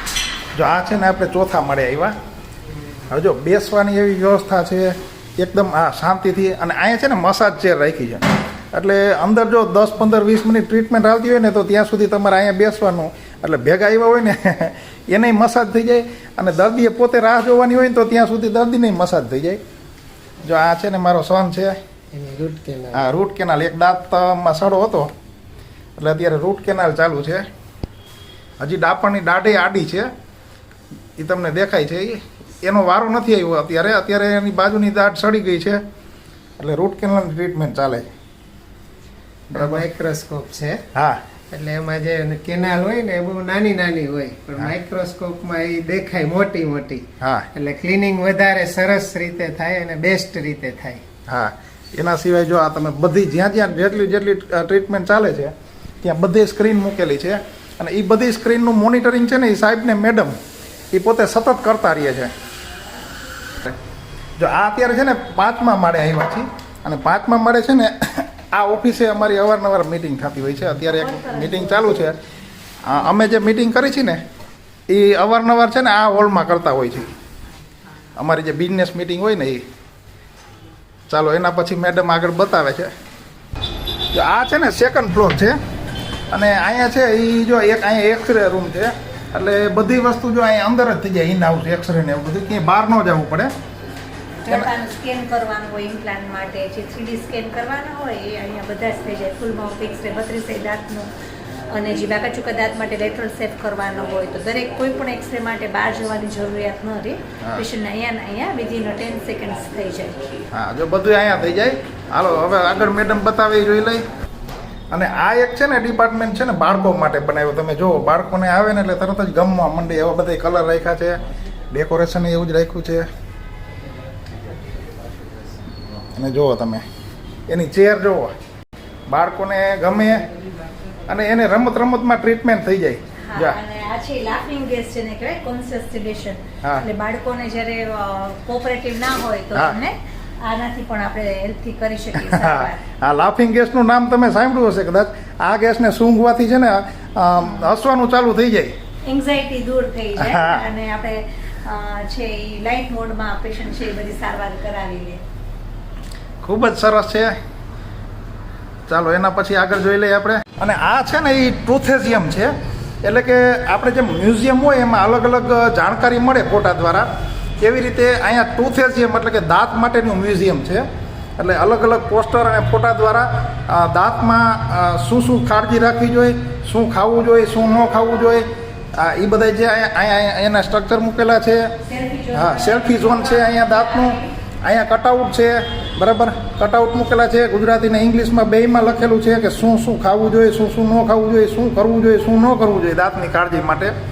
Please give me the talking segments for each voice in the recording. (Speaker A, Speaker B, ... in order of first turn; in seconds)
Speaker A: 0.5-2.1, 3.1-19.6, 20.4-21.8, 22.9-25.1, 26.0-27.5, 28.6-30.1, 31.2-35.8, 36.6-38.1, 39.5-39.8, 40.9-41.2, 47.2-47.5, 51.3-60.3, 60.9-62.3, 64.4-72.2, 72.8-74.2, 74.9-77.1, 78.2-79.6, 81.1-82.9, 84.1-85.6, 86.3-93.5, 110.5-114.0, 114.9-121.2, 121.7-123.1, 126.2-126.8, 127.5-128.3, 129.1-130.3, 131.1-133.6, 142.2-148.7, 150.2-150.7, 156.4-157.4, 158.9-167.1, 167.6-170.8, 171.4-181.7, 182.3-193.9
Speaker B: 22.1-23.1, 39.5-40.8, 41.5-51.0
Speaker C: 70.9-72.1, 94.5-101.1, 101.7-110.2, 133.3-142.8, 149.1-155.2, 181.8-184.3